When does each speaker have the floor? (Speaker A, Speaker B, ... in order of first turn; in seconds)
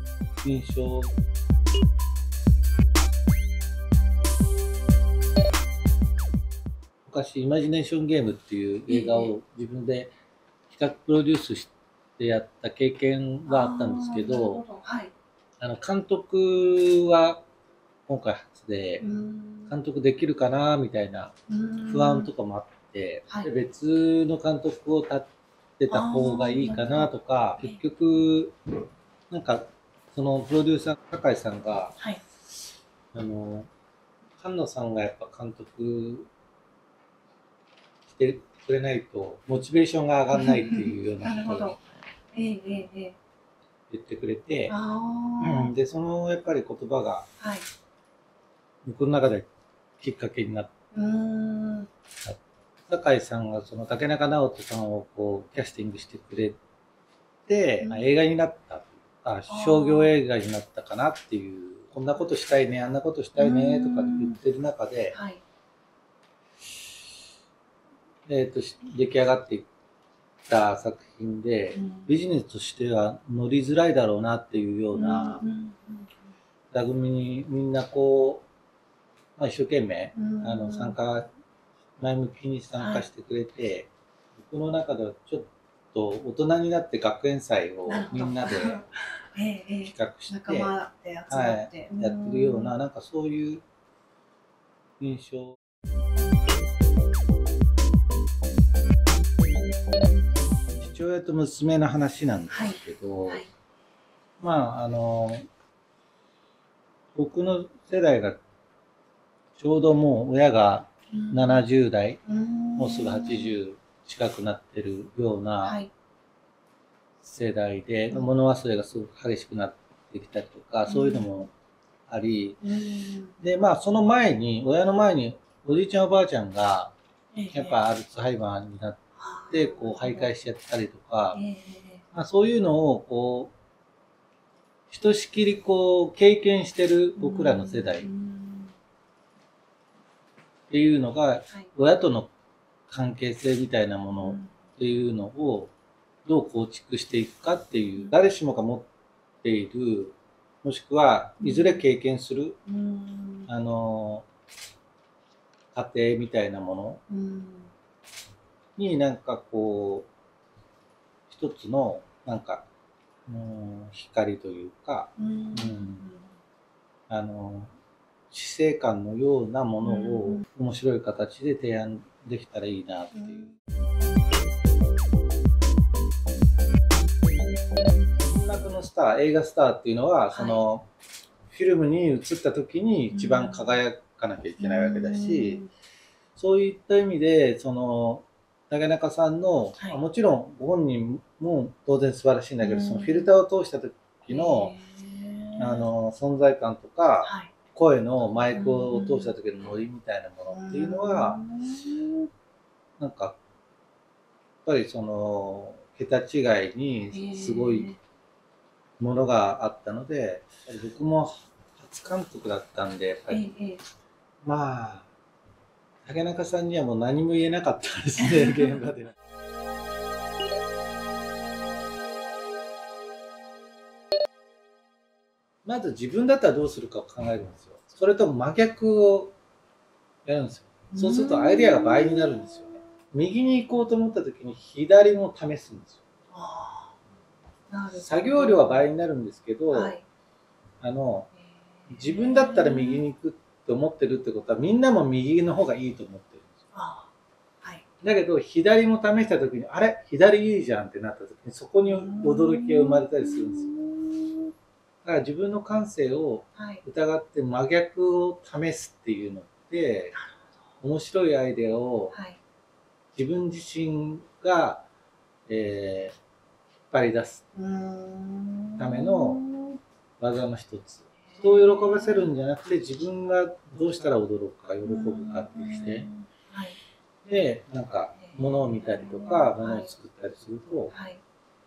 Speaker A: 0.4-1.1, 7.0-10.1, 10.7-14.6, 15.6-17.4, 18.1-19.0, 19.7-21.3, 21.9-25.3, 25.8-28.5, 29.3-32.0, 33.1-33.7, 34.4-36.3, 38.1-41.8, 43.9-44.7, 45.4-47.3, 48.8-49.5, 50.0-50.7, 52.2-56.6, 57.5-65.2, 68.3-69.7, 70.5-75.4, 76.7-78.5, 79.4-81.3, 82.0-88.8, 89.8-90.7, 91.3-93.6, 95.0-95.5, 100.8-103.4, 104.4-105.5, 107.1-108.4, 109.5-112.2, 112.8-115.8, 117.2-121.5, 122.1-122.6, 123.4-126.9, 127.5-131.4, 132.1-133.5, 134.9-138.1, 140.7-142.3, 142.9-145.7, 146.2-148.9, 149.4-152.6, 153.5-154.2, 155.7-157.0, 158.8-160.1, 161.3-162.6, 163.3-166.0, 167.1-167.7, 168.3-173.5, 178.2-180.9, 181.5-185.6, 186.3-194.8, 195.6-201.4, 203.0-203.4, 204.6-207.9, 209.0-213.4, 214.4-215.1, 216.0-219.1, 225.6-229.3, 230.2-236.0, 238.0-240.0, 240.8-241.3, 241.9-246.5, 248.0-253.7, 255.0-260.1, 260.8-262.1, 263.1-264.8, 265.5-266.2, 266.9-267.4, 268.8-269.4, 270.2-276.1, 277.2-280.9
Speaker B: 8.9-9.3, 13.5-15.1, 19.0-19.7, 21.5-22.3, 25.9-27.8, 40.3-41.8, 42.3-43.1, 44.7-45.7, 47.4-47.6, 50.9-51.9, 59.5-60.1, 63.4-64.4, 65.1-65.4, 71.7-72.1, 74.9-76.2, 80.1-81.0, 82.8-83.0, 87.8-92.7, 102.5-103.5, 111.1-111.6, 112.2-113.5, 115.6-115.9, 120.8-121.4, 122.6-123.4, 127.3-127.8, 129.2-130.3, 131.3-132.0, 137.2-138.8, 144.2-144.5, 151.4-151.8, 152.7-153.5, 157.1-157.7, 165.2-166.3, 169.8-170.4, 173.1-173.5, 180.3-180.6, 183.1-183.8, 184.6-185.7, 192.6-193.3, 194.3-195.9, 197.2-197.5, 198.5-199.3, 200.5-202.3, 207.1-208.0, 213.3-213.8, 218.2-218.7, 230.9-232.2, 236.3-236.9, 237.7-238.9, 239.7-240.0, 241.5-243.0, 246.7-247.1, 251.8-254.5, 256.6-256.8, 260.1-260.4, 262.1-262.4, 267.5-269.8, 271.3-272.3, 274.8-276.8, 278.2-279.9, 280.9-281.2